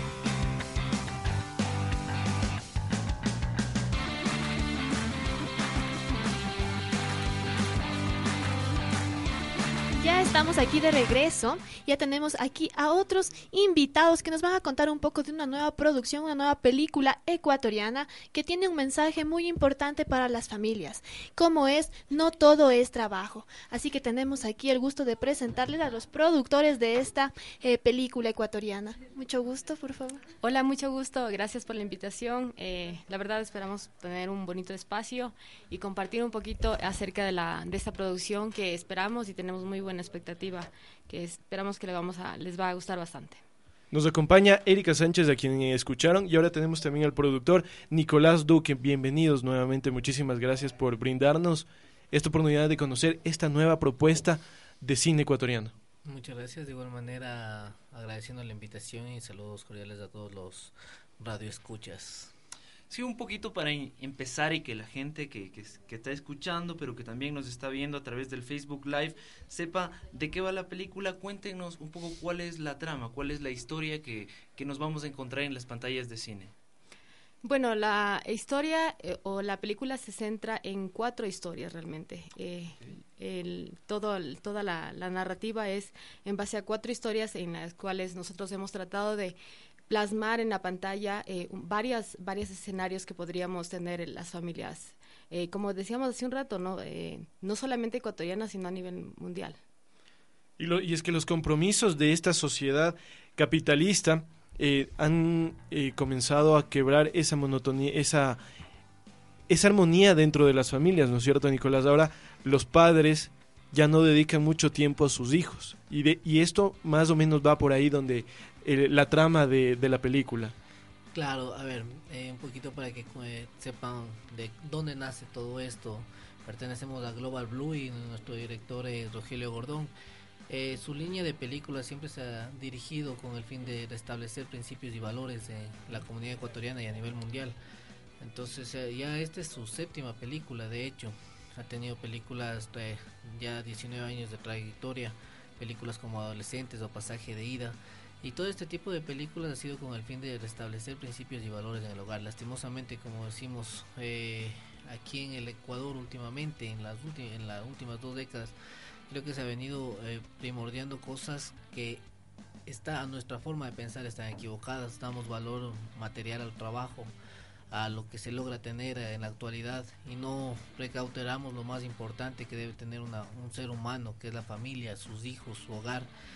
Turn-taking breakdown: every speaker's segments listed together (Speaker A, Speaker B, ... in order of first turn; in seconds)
Speaker A: 9.9-30.3
Speaker B: 30.4-43.4, 77.4-89.4, 89.9-99.6
Speaker C: 43.9-55.7, 100.6-108.4, 109.5-120.5
Speaker D: 56.0-62.3, 121.1-129.9, 130.5-137.6, 138.2-158.6, 159.1-162.0, 162.7-167.1, 167.7-176.1
Speaker E: 62.9-76.5